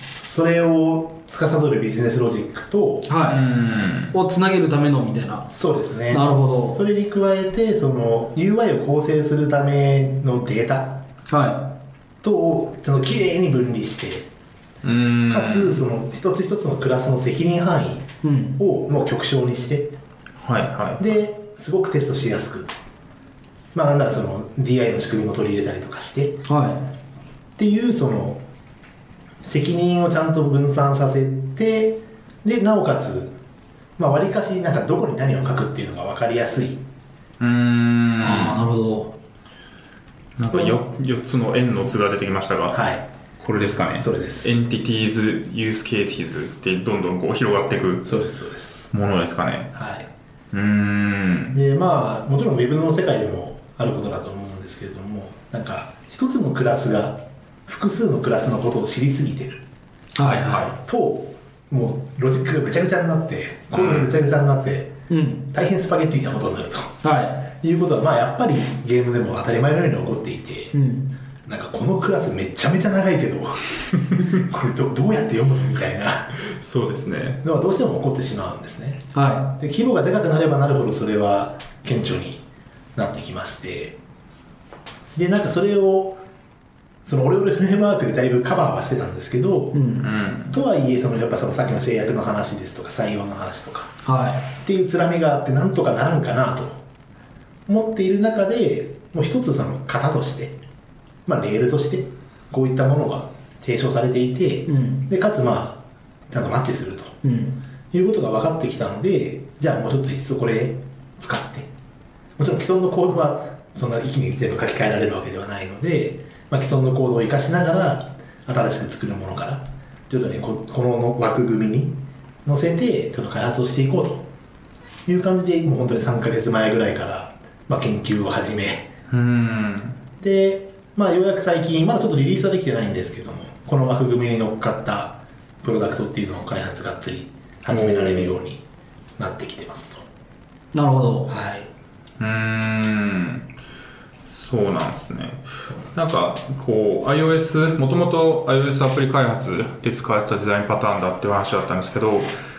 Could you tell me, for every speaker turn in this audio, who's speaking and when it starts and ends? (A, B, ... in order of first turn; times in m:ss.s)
0:00.2-0:03.1 A
0:03.1-0:03.4 B
0:03.2-0:04.1 C
0:04.1-0:05.5 B
0:05.5-0:11.0 A
0:06.1-0:06.8 B
0:11.3-0:11.7 B
0:12.2-0:14.3 A
0:14.8-0:15.8 C
0:15.3-0:19.9 A
0:18.2-0:18.6 B
0:20.4-0:21.2 C
0:21.0-0:22.7 A
0:23.7-0:26.4 A
0:26.4-0:26.9 B
0:27.6-0:28.4 A
0:29.4-0:33.3 A
0:34.0-0:36.8 A
0:37.4-0:38.6 C
0:38.2-0:39.1 B
0:40.4-0:42.8 C
0:40.5-0:40.9 A
0:42.7-0:43.0 A
0:43.4-0:48.1 C
0:44.0-0:44.5 A
0:48.0-0:48.9 A
0:48.9-0:49.7 C
0:49.7-0:50.1 A
0:50.5-0:51.6 C
0:51.5-0:59.6 A
1:00.2-1:00.8 B
1:00.2-1:00.8 C
1:00.8-1:04.9 A
1:03.7-1:04.1 C
1:05.1-1:05.5 B
1:05.5-1:06.9 A
1:07.0-1:07.5 B
1:07.6-1:10.7 A
1:10.7-1:11.1 B
1:11.4-1:16.4 A
1:16.4-1:17.4 C
1:17.4-1:19.0 A
1:19.1-1:19.6 B
1:19.6-1:22.4 A
1:22.9-1:24.0 A
1:25.1-1:26.2 A
1:27.0-1:29.8 A
1:29.7-1:30.0 B
1:30.0-1:30.6 C
1:30.5-1:33.9 A
1:34.0-1:34.5 B
1:34.6-1:36.8 A
1:37.7-1:40.6 A
1:41.3-1:47.2 A
1:44.7-1:45.0 B
1:47.2-1:47.6 B
1:47.9-1:51.7 A
1:52.4-2:04.3 A
2:05.0-2:08.9 A
2:09.1-2:10.0 C
2:10.2-2:18.6 A
2:17.7-2:18.4 C
2:19.2-2:20.0 A
2:20.7-2:21.3 B
2:21.3-2:21.7 A
2:22.2-2:23.5 C
2:24.3-2:32.3 C